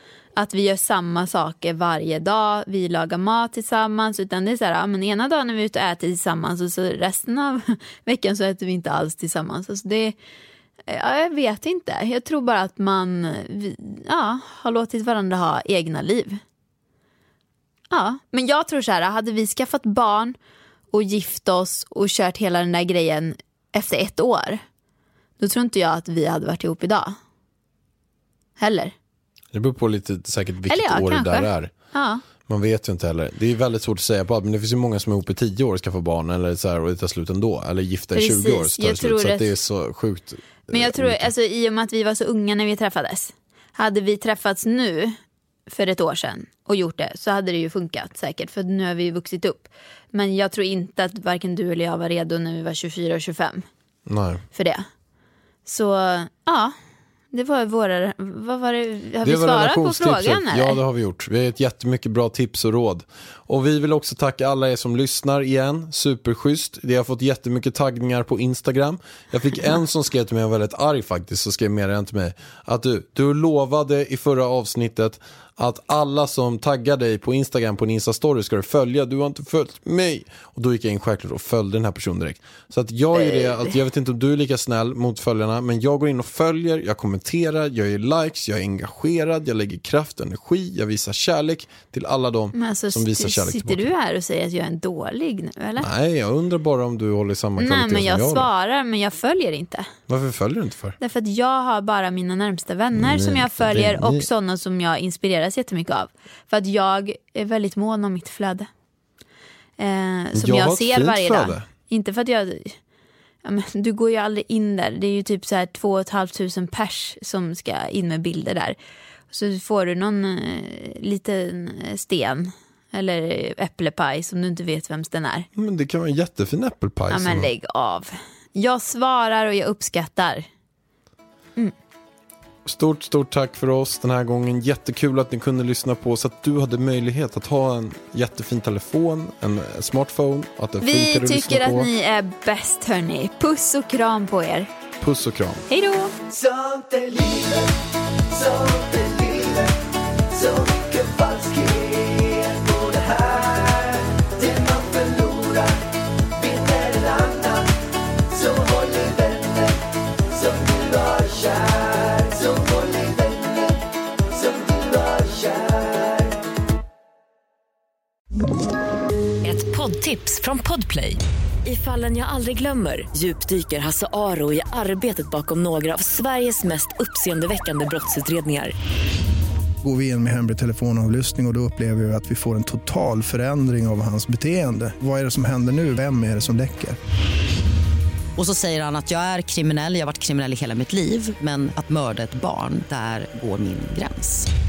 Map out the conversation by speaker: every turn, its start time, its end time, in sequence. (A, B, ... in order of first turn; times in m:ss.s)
0:00.4-0:10.1 A
0:10.9-0:16.4 A
0:17.9-0:20.4 A
0:20.9-0:24.6 A
0:25.4-0:27.2 A
0:28.6-0:28.9 A
0:29.5-0:31.7 B
0:30.7-0:32.2 A
0:32.4-0:41.3 B
0:38.1-0:39.5 A
0:40.7-0:53.6 A
0:54.0-0:54.4 B
0:54.5-0:54.8 A
0:55.6-0:56.7 A
0:57.3-1:00.8 A
0:59.2-1:33.9 B
1:23.1-1:23.8 A
1:32.5-1:35.9 A
1:35.8-1:38.5 B
1:37.6-1:39.9 A
1:40.1-1:41.0 B
1:41.0-1:48.7 A
1:42.9-1:44.3 B
1:49.8-1:52.8 A
1:50.3-1:51.7 B
1:53.4-1:58.8 A
1:59.3-2:05.5 A
2:05.5-2:07.5 B
2:07.1-2:10.5 A
2:12.6-2:21.9 B
2:20.8-2:24.7 A
2:25.0-2:25.6 B
2:25.7-2:26.1 A
2:26.3-2:27.7 C
2:28.3-2:29.8 C
2:30.3-2:35.8 C
2:36.3-2:37.7 C
2:38.3-2:46.4 C
2:49.4-2:58.7 D
2:59.8-3:07.0 E
3:08.4-3:14.5 F